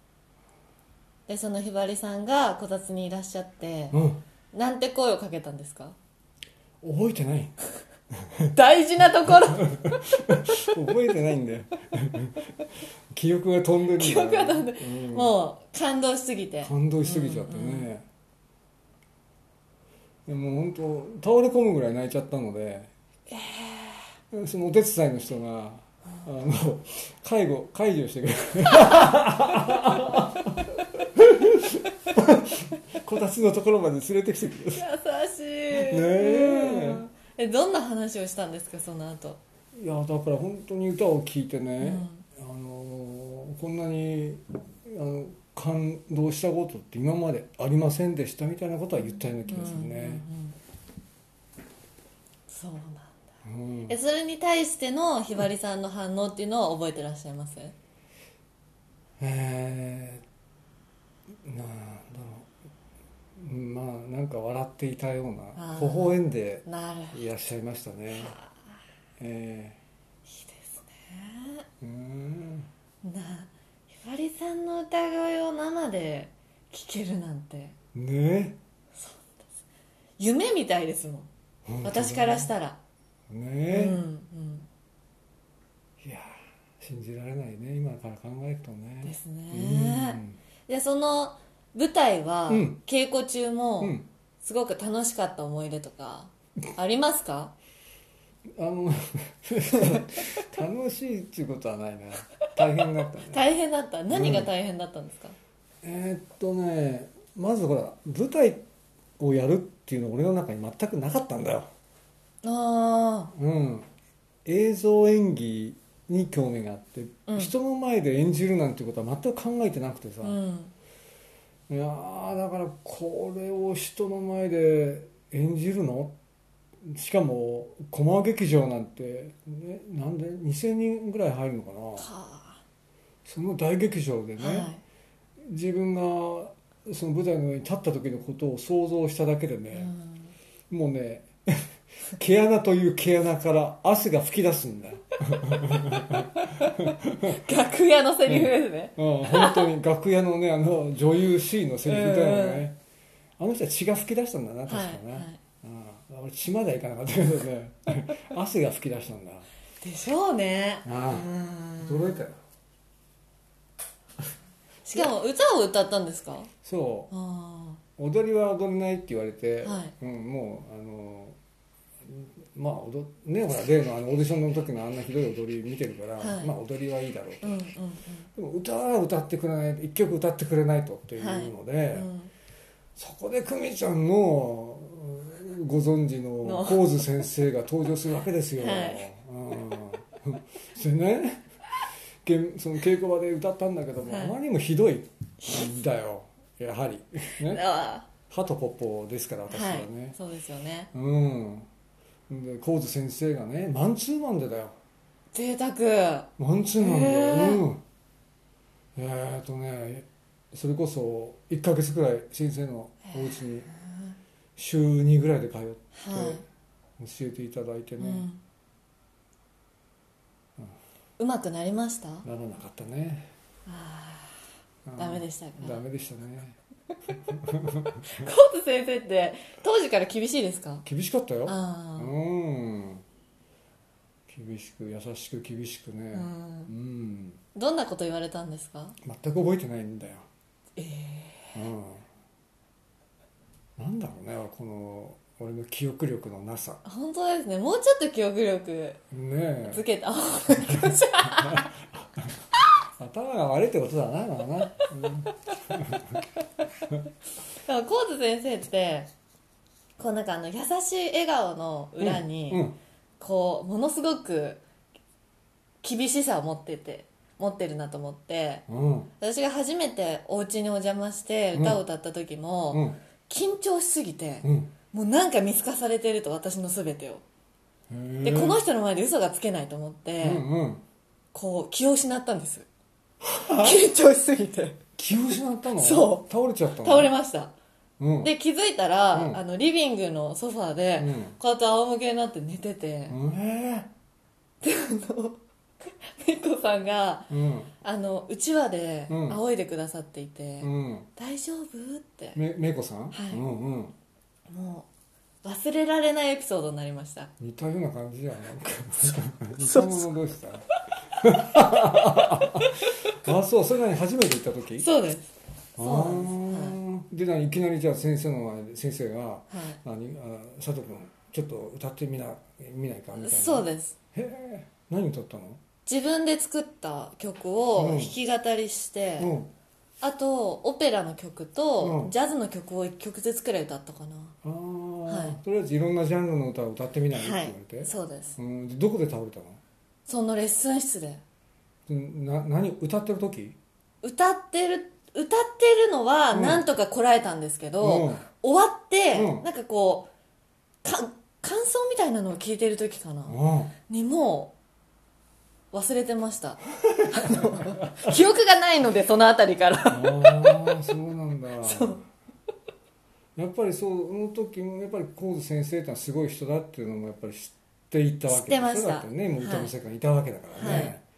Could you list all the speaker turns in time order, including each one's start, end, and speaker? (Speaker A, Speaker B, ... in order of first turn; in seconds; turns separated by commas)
Speaker A: 1.3-4.0, Speaker B: 3.9-4.2, Speaker A: 4.5-6.0, Speaker B: 6.8-7.5, Speaker A: 8.5-9.8, Speaker B: 9.7-12.5, Speaker B: 13.1-15.3, Speaker A: 13.9-17.9, Speaker B: 16.6-18.1, Speaker B: 20.3-22.9, Speaker A: 23.3-24.1, Speaker B: 24.3-30.5, Speaker B: 31.1-34.8, Speaker A: 34.7-39.4, Speaker B: 35.7-37.0, Speaker B: 39.8-50.3, Speaker A: 41.8-42.2, Speaker A: 49.1-50.6, Speaker A: 52.5-53.2, Speaker B: 53.5-54.0, Speaker A: 53.9-57.7, Speaker B: 59.2-60.2, Speaker B: 61.5-62.5, Speaker B: 63.4-68.4, Speaker A: 65.6-67.2, Speaker A: 68.1-68.5, Speaker B: 69.2-69.8, Speaker A: 70.3-71.7, Speaker B: 71.8-72.7, Speaker A: 73.0-73.5, Speaker A: 74.0-77.7, Speaker B: 78.0-78.6, Speaker A: 79.0-79.4, Speaker A: 80.2-81.3, Speaker B: 81.7-82.5, Speaker A: 81.8-82.8, Speaker B: 83.3-84.0, Speaker A: 83.7-84.7, Speaker B: 86.0-86.3, Speaker B: 86.8-90.4, Speaker A: 89.0-97.5, Speaker B: 92.5-92.8, Speaker B: 93.8-94.1, Speaker B: 98.6-103.4, Speaker A: 103.3-105.3, Speaker B: 104.1-104.5, Speaker B: 105.8-108.6, Speaker B: 109.2-111.7, Speaker A: 112.4-113.3, Speaker B: 113.3-113.9, Speaker B: 114.5-120.4, Speaker A: 117.3-117.5, Speaker A: 120.2-120.7, Speaker B: 121.7-126.2, Speaker B: 126.8-132.1, Speaker A: 132.0-132.6, Speaker B: 133.2-134.7, Speaker A: 134.4-134.8, Speaker B: 135.4-139.9, Speaker A: 139.7-140.3, Speaker B: 140.7-146.3, Speaker A: 146.0-149.7, Speaker B: 146.8-147.4, Speaker B: 148.3-152.8, Speaker A: 151.8-152.7, Speaker B: 153.4-159.5, Speaker A: 154.7-155.4, Speaker A: 159.8-162.2, Speaker B: 160.8-162.4, Speaker A: 164.8-166.5, Speaker B: 166.7-167.1, Speaker A: 167.1-167.8, Speaker B: 168.0-171.4, Speaker A: 169.6-169.9, Speaker B: 172.1-177.6, Speaker A: 176.2-176.5, Speaker A: 177.4-178.3, Speaker B: 178.4-182.1, Speaker A: 181.2-182.3, Speaker B: 183.0-191.4, Speaker A: 186.4-187.1, Speaker A: 188.6-189.0, Speaker B: 192.2-197.6, Speaker A: 194.1-194.3, Speaker A: 197.4-198.1, Speaker B: 198.3-200.2, Speaker A: 199.5-200.9, Speaker B: 200.9-201.7, Speaker B: 202.3-204.7, Speaker A: 205.3-207.6, Speaker B: 206.4-207.8, Speaker B: 209.0-213.7, Speaker A: 213.1-214.2, Speaker B: 214.6-216.4, Speaker A: 215.9-216.4, Speaker B: 217.0-218.3, Speaker A: 218.0-218.4, Speaker A: 221.2-222.3, Speaker B: 222.2-223.3, Speaker A: 223.7-224.4, Speaker B: 224.9-226.6, Speaker A: 225.0-225.8, Speaker B: 227.3-228.3, Speaker A: 228.1-230.8, Speaker B: 230.8-233.0, Speaker A: 231.5-232.1, Speaker B: 234.3-237.4, Speaker A: 236.1-236.7, Speaker A: 237.6-239.0, Speaker B: 239.0-240.2, Speaker A: 240.8-241.6, Speaker B: 241.6-242.1, Speaker B: 243.8-246.8, Speaker A: 246.8-249.0, Speaker B: 249.1-249.8, Speaker A: 249.6-251.7, Speaker B: 250.7-251.7, Speaker B: 253.0-256.2, Speaker A: 257.6-259.1, Speaker A: 260.0-262.7, Speaker B: 262.0-262.8, Speaker A: 263.2-264.6, Speaker A: 265.8-268.6, Speaker B: 268.7-269.1, Speaker A: 269.2-277.2, Speaker B: 271.5-271.8, Speaker B: 272.7-273.0, Speaker B: 274.4-274.7, Speaker B: 277.9-278.6, Speaker A: 278.2-280.4, Speaker B: 280.2-280.8, Speaker A: 281.3-282.7, Speaker B: 283.2-283.8, Speaker A: 283.5-284.8, Speaker B: 285.0-287.1, Speaker A: 285.8-286.3, Speaker A: 286.8-287.5, Speaker B: 288.0-288.3, Speaker A: 288.2-293.2, Speaker B: 289.1-289.4, Speaker B: 291.0-291.4, Speaker B: 293.1-293.9, Speaker A: 294.6-295.4, Speaker A: 296.1-302.4, Speaker B: 297.3-297.7, Speaker B: 299.1-299.4, Speaker B: 300.6-301.1, Speaker B: 302.4-303.9, Speaker A: 303.1-303.4, Speaker A: 304.5-304.9, Speaker A: 305.4-307.3, Speaker B: 307.4-310.6, Speaker A: 309.6-310.1, Speaker B: 311.2-314.9, Speaker A: 314.8-316.8, Speaker B: 315.8-325.6, Speaker A: 319.5-319.8, Speaker A: 323.2-323.9, Speaker A: 325.9-329.4, Speaker B: 327.8-328.1, Speaker B: 329.2-329.5, Speaker A: 330.0-334.3, Speaker B: 331.8-332.1, Speaker B: 334.4-339.6, Speaker A: 335.1-335.4, Speaker A: 337.1-338.4, Speaker A: 340.1-341.2, Speaker B: 341.9-343.6, Speaker A: 344.0-350.1, Speaker B: 346.3-346.6, Speaker B: 347.8-348.2, Speaker B: 349.1-349.5, Speaker A: 350.8-354.5, Speaker B: 353.3-353.7, Speaker A: 355.7-360.7, Speaker B: 357.0-357.7, Speaker B: 359.9-362.0, Speaker A: 361.6-362.0, Speaker B: 363.4-371.0, Speaker A: 368.3-369.7, Speaker A: 370.6-371.0